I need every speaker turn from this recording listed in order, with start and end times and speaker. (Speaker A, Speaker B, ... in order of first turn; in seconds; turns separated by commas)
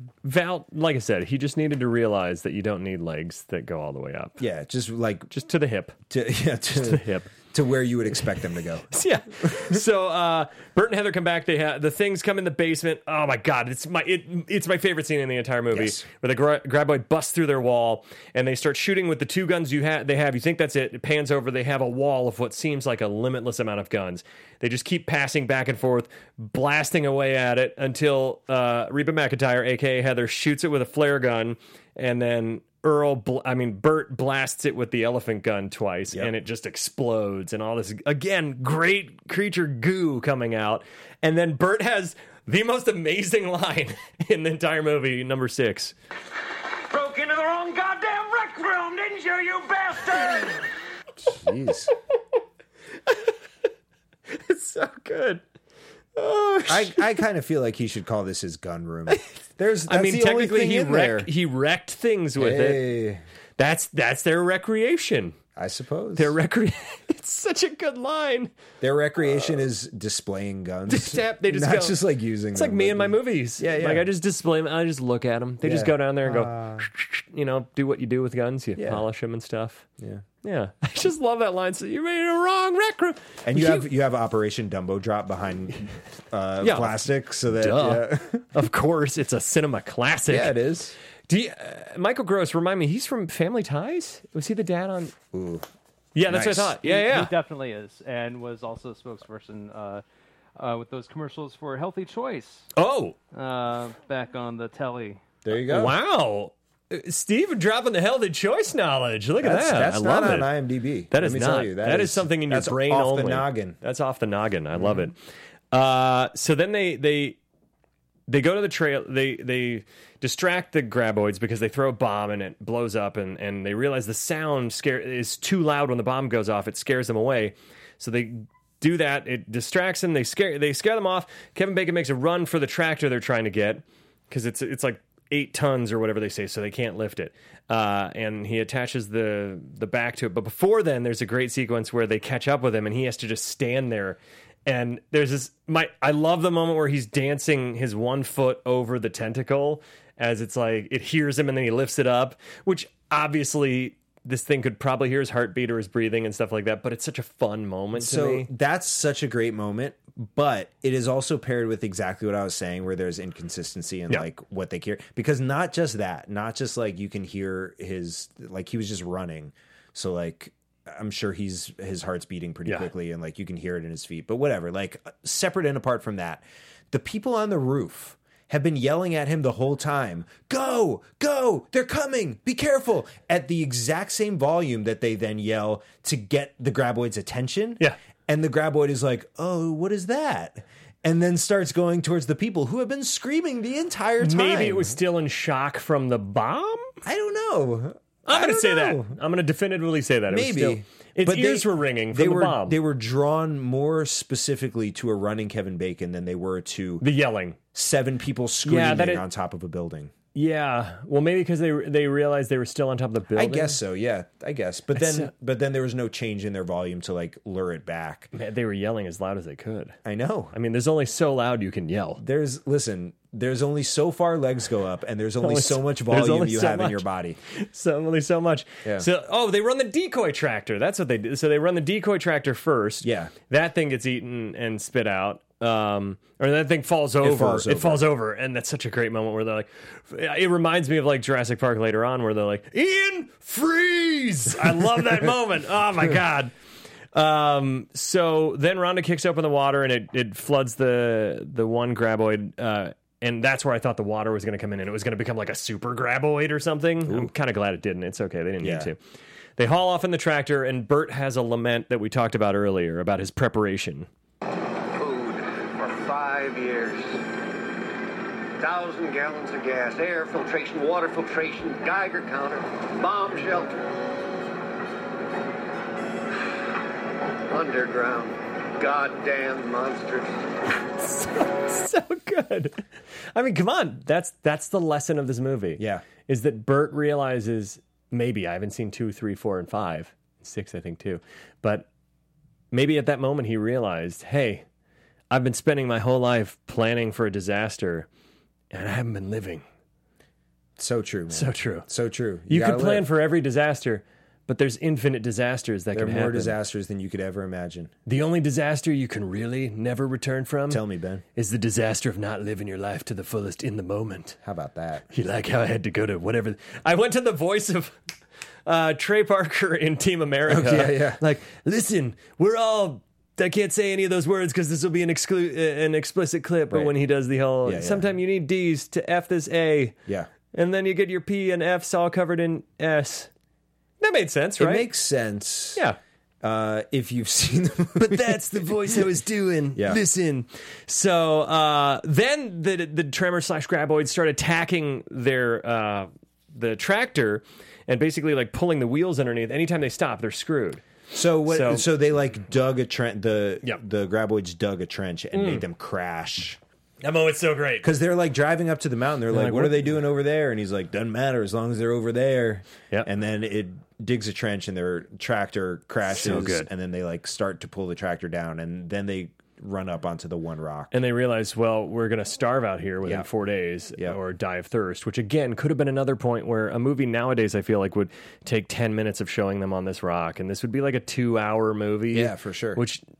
Speaker A: 0.2-4.4, Speaker B: 4.4-5.3, Speaker A: 5.3-6.0, Speaker B: 6.1-9.8, Speaker A: 6.7-7.3, Speaker A: 8.9-46.0, Speaker B: 15.7-16.1, Speaker A: 47.0-50.5, Speaker B: 51.2-51.9, Speaker A: 54.3-55.4, Speaker A: 56.2-57.0, Speaker B: 56.7-61.3, Speaker A: 59.9-62.9, Speaker B: 62.4-63.2, Speaker A: 63.6-65.4, Speaker B: 65.6-66.3, Speaker A: 66.2-68.5, Speaker B: 68.8-74.1, Speaker A: 70.9-72.0, Speaker A: 72.5-79.9, Speaker B: 75.6-76.9, Speaker B: 78.8-79.0, Speaker B: 80.0-80.2, Speaker A: 80.4-83.9, Speaker B: 83.4-88.5, Speaker A: 86.6-90.6, Speaker B: 90.3-91.0, Speaker A: 91.3-95.2, Speaker B: 95.3-95.7, Speaker A: 96.2-97.3, Speaker B: 96.3-96.8, Speaker C: 96.8-100.0, Speaker C: 100.6-102.7, Speaker A: 102.7-103.2, Speaker C: 103.3-105.2, Speaker B: 105.4-106.0, Speaker A: 105.6-110.5, Speaker B: 109.4-113.8, Speaker A: 111.1-115.2, Speaker A: 115.7-117.4, Speaker A: 118.3-158.5, Speaker B: 157.9-195.0, Speaker A: 194.2-197.0, Speaker B: 197.0-199.1, Speaker A: 198.3-202.8, Speaker B: 200.3-207.1, Speaker A: 207.0-207.6, Speaker B: 207.7-210.1, Speaker A: 208.7-209.2, Speaker A: 210.3-213.8, Speaker B: 213.3-218.3, Speaker A: 214.9-215.3, Speaker A: 218.3-220.0, Speaker B: 220.1-220.6, Speaker A: 220.5-222.2, Speaker B: 222.2-227.4, Speaker A: 225.4-246.5, Speaker B: 233.0-233.3, Speaker B: 237.2-238.1, Speaker A: 247.1-259.0, Speaker B: 257.1-257.3, Speaker B: 258.6-258.9, Speaker A: 259.6-264.1, Speaker D: 265.0-267.2, Speaker D: 268.6-273.9, Speaker D: 277.5-280.4, Speaker A: 280.9-291.9, Speaker B: 285.8-286.1, Speaker A: 292.7-294.7, Speaker A: 295.3-298.1, Speaker A: 298.7-299.6, Speaker B: 300.8-303.1, Speaker A: 301.3-301.9, Speaker A: 302.5-306.6, Speaker B: 305.9-307.9, Speaker A: 308.1-310.8, Speaker B: 310.7-311.2, Speaker A: 311.4-314.4, Speaker B: 314.4-315.1, Speaker A: 315.1-318.0, Speaker A: 318.7-330.0, Speaker B: 320.5-321.2, Speaker B: 326.7-327.0, Speaker B: 327.6-328.1, Speaker A: 330.5-333.3, Speaker A: 334.0-334.9, Speaker B: 334.6-335.8, Speaker B: 336.4-339.0, Speaker A: 338.0-350.8, Speaker B: 339.8-340.0, Speaker B: 351.1-356.6, Speaker A: 351.5-351.9, Speaker A: 355.3-355.6, Speaker A: 357.0-357.9, Speaker B: 357.8-370.9, Speaker A: 359.3-360.0, Speaker A: 366.1-366.7, Speaker A: 370.9-383.0, Speaker B: 373.0-373.3, Speaker B: 382.1-382.8